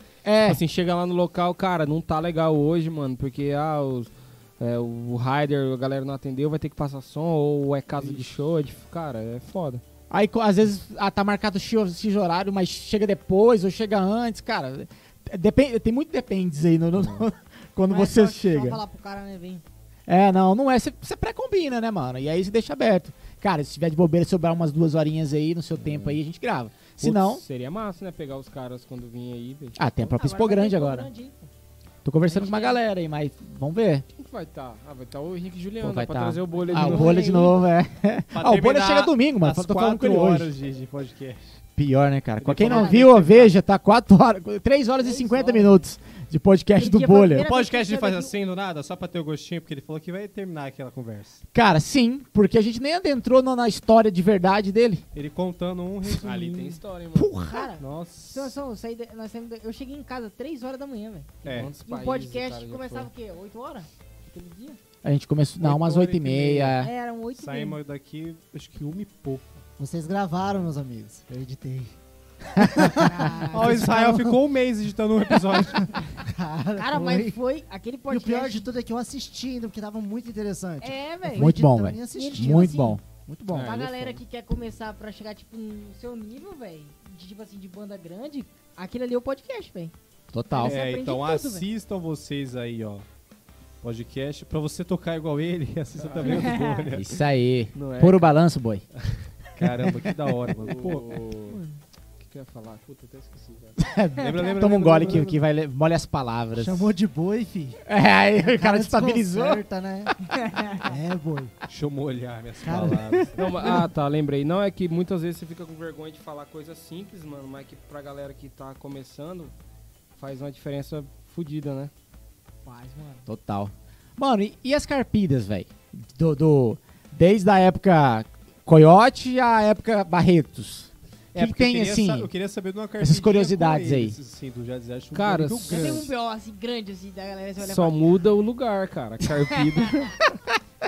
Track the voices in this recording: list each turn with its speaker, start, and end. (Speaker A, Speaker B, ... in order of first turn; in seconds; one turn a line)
Speaker A: 0.2-0.6
Speaker B: 0.4-9.8
Speaker A: 10.1-18.8
Speaker C: 17.9-19.6
Speaker A: 20.1-27.4
Speaker B: 25.8-26.2
Speaker B: 27.0-29.8
Speaker A: 29.8-31.1
Speaker C: 30.0-31.5
Speaker A: 32.0-34.0
Speaker C: 32.3-32.8
Speaker B: 34.1-37.4
Speaker A: 35.8-40.5
Speaker C: 36.5-37.6
Speaker D: 38.3-41.6
Speaker A: 41.8-47.5
Speaker D: 42.4-43.5
Speaker C: 42.6-43.0
Speaker C: 45.0-45.8
Speaker C: 46.8-48.4
Speaker D: 47.4-51.4
Speaker A: 51.5-55.0
Speaker D: 55.1-56.8
Speaker B: 56.1-57.4
Speaker C: 57.1-64.8
Speaker D: 57.7-58.6
Speaker D: 61.4-61.7
Speaker B: 61.4-63.1
Speaker A: 65.0-66.9
Speaker D: 65.6-66.8
Speaker C: 66.8-67.8
Speaker D: 67.3-69.6
Speaker E: 69.8-71.9
Speaker E: 72.5-74.3
Speaker A: 72.6-72.9
Speaker C: 72.9-74.0
Speaker D: 73.5-76.0
Speaker E: 76.2-77.4
Speaker C: 76.8-78.7
Speaker E: 78.1-83.6
Speaker C: 80.8-81.6
Speaker A: 81.3-83.0
Speaker C: 82.1-83.0
Speaker B: 83.5-84.2
Speaker C: 83.6-89.9
Speaker A: 90.3-90.8
Speaker C: 90.5-91.7
Speaker D: 90.6-93.0
Speaker D: 93.8-97.2
Speaker B: 96.0-96.5
Speaker C: 96.2-96.8
Speaker A: 96.9-98.8
Speaker B: 97.7-98.4
Speaker D: 99.5-101.2
Speaker A: 99.6-99.9
Speaker B: 100.6-101.6
Speaker C: 101.5-101.8
Speaker B: 102.2-103.8
Speaker A: 103.8-106.9
Speaker D: 104.2-105.4
Speaker E: 106.5-107.8
Speaker A: 107.8-109.6
Speaker E: 108.4-110.2
Speaker C: 110.3-110.8
Speaker E: 110.7-111.5
Speaker D: 111.7-113.8
Speaker E: 112.6-113.7
Speaker B: 113.4-119.5
Speaker B: 120.2-121.9
Speaker C: 122.6-123.3
Speaker A: 123.2-132.3
Speaker D: 131.3-136.1
Speaker A: 133.0-134.2
Speaker B: 135.1-136.1
Speaker C: 135.7-138.0
Speaker B: 137.6-140.2